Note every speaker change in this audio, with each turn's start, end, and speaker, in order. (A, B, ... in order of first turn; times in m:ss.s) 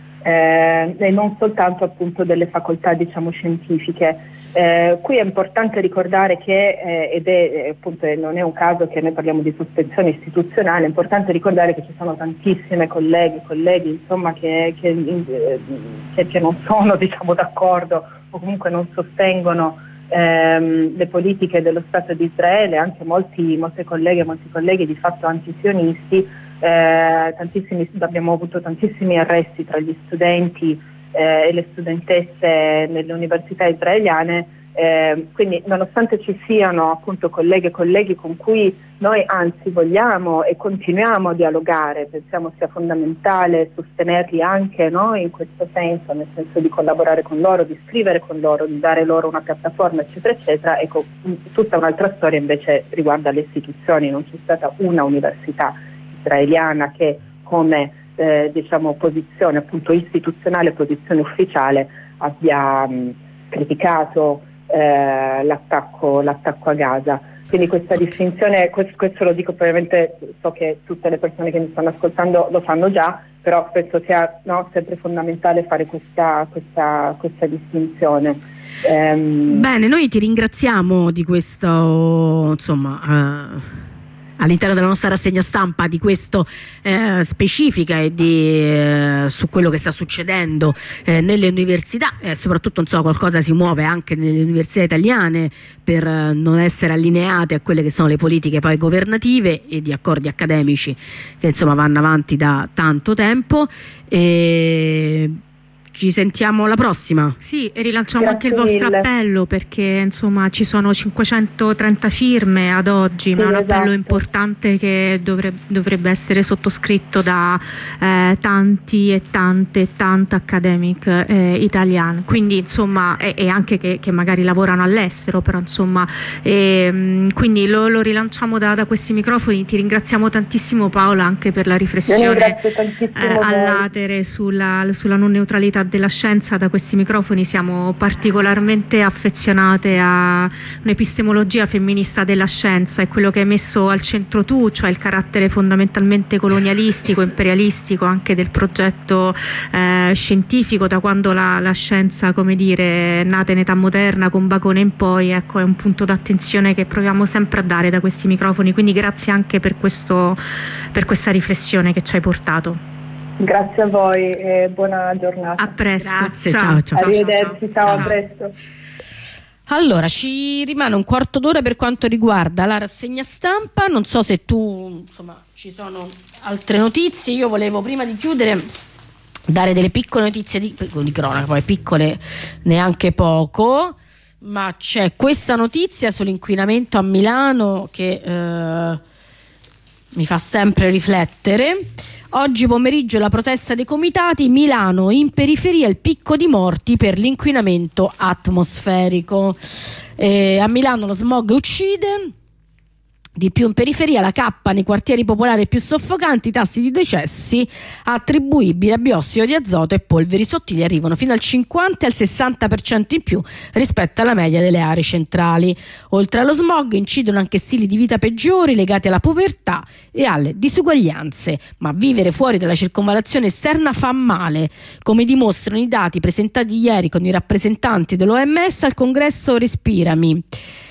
0:00.2-1:19.7 A
1:19.5-1:23.8 B
1:24.4-1:45.4 B
1:45.9-1:47.4 B
1:47.4-2:12.6 C
1:48.2-1:49.1 A
1:53.4-1:54.2 A
2:12.1-2:13.8 A
2:13.2-2:40.4 C
2:40.9-2:42.8 C
2:43.4-2:46.3 A
2:45.6-2:48.2 C
2:46.1-2:47.3 B
2:46.9-2:48.5 A
2:47.8-2:48.1 B
2:49.7-2:58.6 B
2:59.5-3:09.0 B
3:10.1-3:19.6 B
3:20.2-3:22.3 B
3:23.4-3:50.4 B